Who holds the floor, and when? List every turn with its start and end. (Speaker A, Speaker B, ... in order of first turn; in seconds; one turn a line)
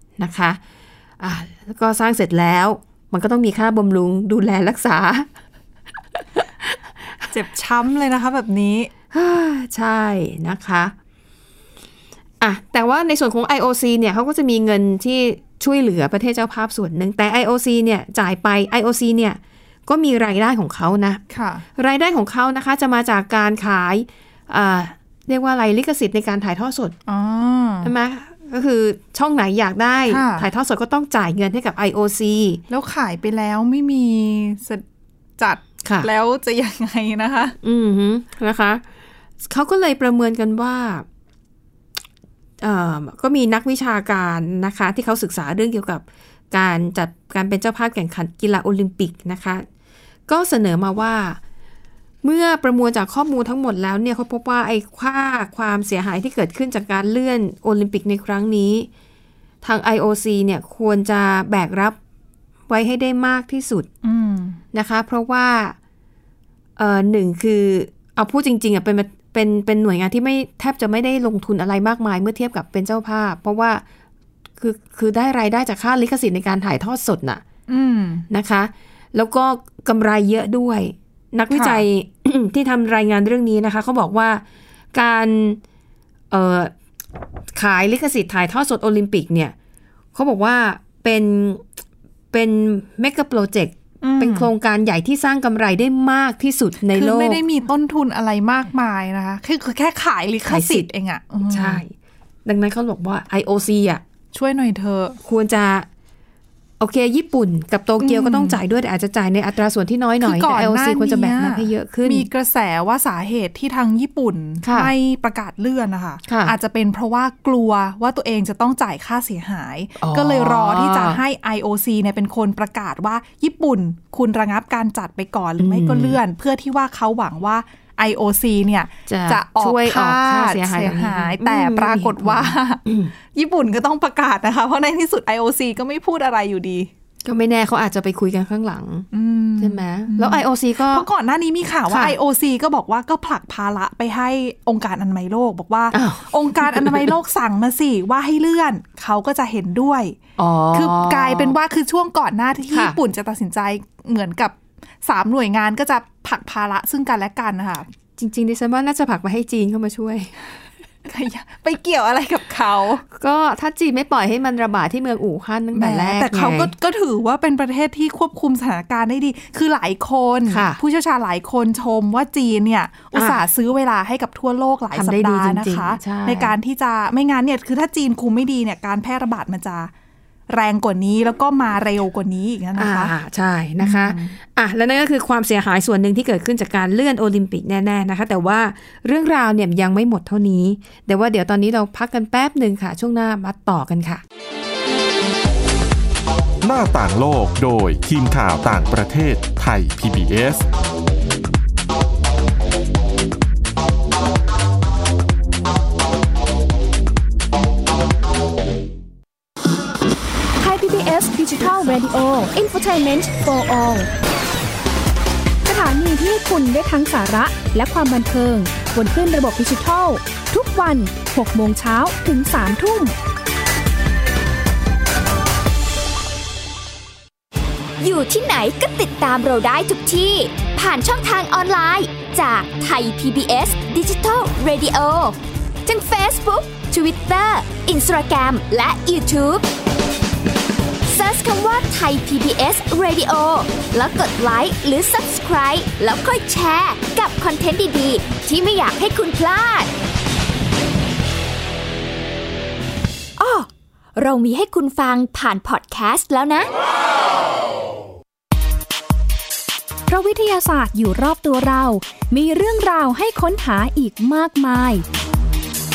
Speaker A: 0.2-0.6
Speaker A: 1.2-5.3
Speaker A: 6.4-6.8
Speaker B: 7.3-8.9
Speaker A: 9.1-10.9
Speaker A: 12.4-21.2
Speaker B: 21.3-21.6
Speaker A: 21.8-26.9
Speaker B: 27.1-27.9
Speaker A: 27.8-32.6
Speaker B: 30.1-30.5
Speaker B: 32.7-34.8
Speaker B: 35.4-37.5
Speaker A: 35.8-36.1
Speaker A: 37.6-38.8
Speaker A: 39.4-41.0
Speaker A: 42.6-49.6
Speaker A: 50.3-51.4
Speaker A: 52.2-58.9
Speaker A: 59.6-62.0
Speaker A: 62.7-63.9
Speaker B: 64.0-64.6
Speaker A: 64.7-65.8
Speaker A: 66.8-73.8
Speaker A: 74.6-77.4
Speaker B: 77.7-78.3
Speaker A: 78.3-84.4
Speaker B: 81.5-81.8
Speaker A: 84.9-85.6
Speaker A: 86.3-86.7
Speaker A: 87.5-89.5
Speaker A: 90.2-91.7
Speaker A: 92.3-97.4
Speaker B: 94.0-94.5
Speaker B: 96.9-101.8
Speaker A: 100.5-100.9
Speaker A: 101.5-101.9
Speaker A: 102.5-104.0
Speaker B: 104.3-105.2
Speaker A: 105.2-105.9
Speaker A: 106.8-112.3
Speaker B: 108.0-108.6
Speaker B: 110.2-136.9
Speaker A: 114.6-114.9
Speaker A: 116.2-116.5
Speaker A: 120.0-121.2
Speaker A: 125.6-126.2
Speaker A: 129.1-133.1
Speaker A: 137.2-139.1
Speaker B: 139.1-150.2
Speaker A: 139.6-141.1
Speaker A: 141.9-142.2
Speaker A: 145.9-147.1
Speaker A: 150.4-151.6
Speaker B: 150.7-157.9
Speaker A: 152.7-153.0
Speaker A: 158.2-160.3
Speaker B: 161.1-163.0
Speaker A: 163.1-166.7
Speaker B: 165.7-179.9
Speaker A: 170.5-170.8
Speaker A: 173.1-173.4
Speaker A: 174.9-176.6
Speaker B: 180.5-183.1
Speaker A: 182.8-194.2
Speaker B: 183.8-184.4
Speaker C: 196.6-200.7
Speaker D: 210.6-214.1
Speaker D: 215.7-223.1
Speaker E: 228.0-239.6
Speaker E: 241.0-249.9
Speaker E: 253.4-256.7
Speaker D: 260.1-265.0